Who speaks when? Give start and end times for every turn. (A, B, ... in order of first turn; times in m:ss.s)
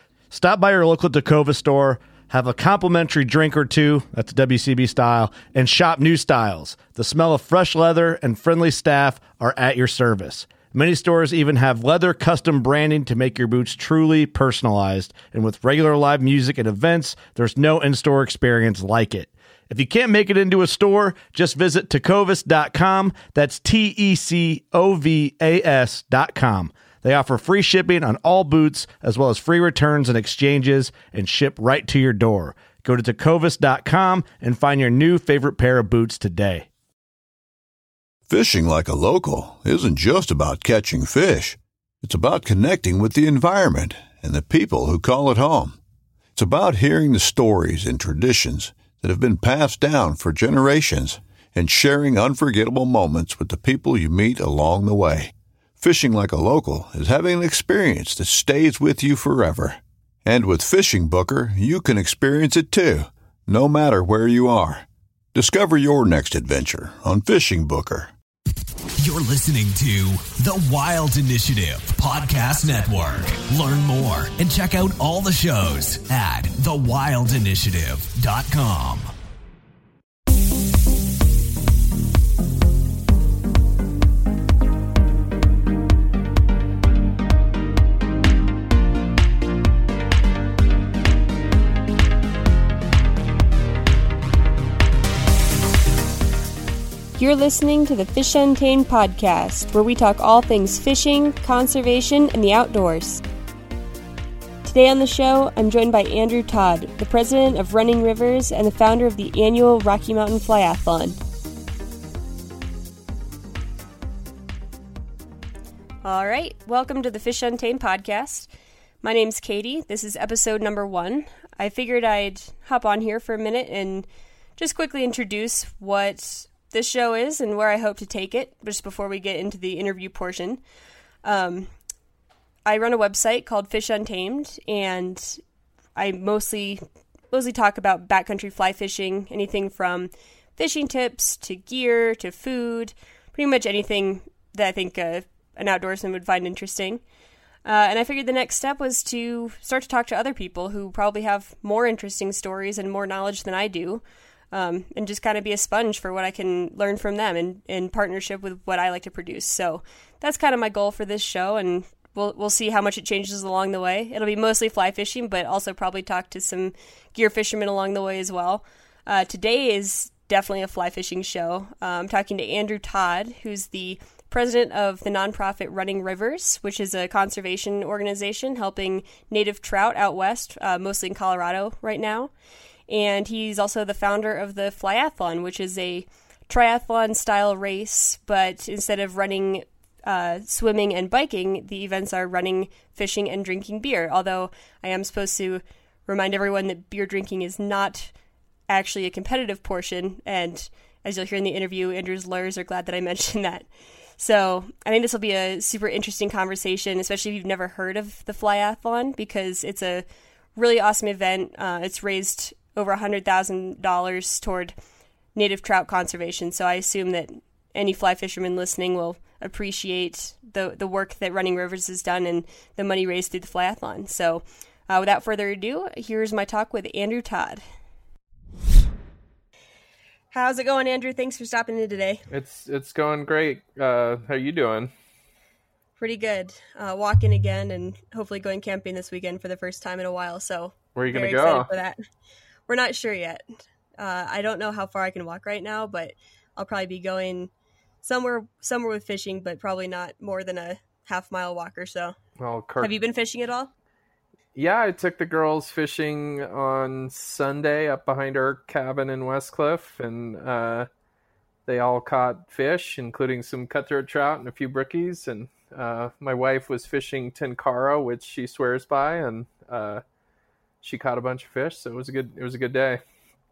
0:00.3-0:36.7 A
0:38.3-0:45.8 B
0:46.4-1:08.1 B
1:09.0-1:19.1 C
1:37.2-1:43.2 D
1:44.6-1:51.2 D
1:56.0-1:58.5 D
1:59.0-2:10.6 D
2:11.2-2:11.7 D
2:12.7-2:15.4 D
2:16.0-2:27.0 D
2:27.6-3:02.3 D
3:02.9-3:18.1 D
3:18.7-3:30.0 D
3:30.6-3:34.7 D
3:35.4-3:47.6 D
3:50.3-3:52.2 D
3:52.3-3:54.9 E
3:56.0-4:02.0 D
4:01.0-4:01.7 E
4:02.7-4:03.4 D
4:04.0-4:12.2 D
4:12.4-4:12.9 E
4:12.8-4:13.7 D
4:14.6-4:20.9 E
4:21.7-4:30.0 E
4:30.8-4:33.0 E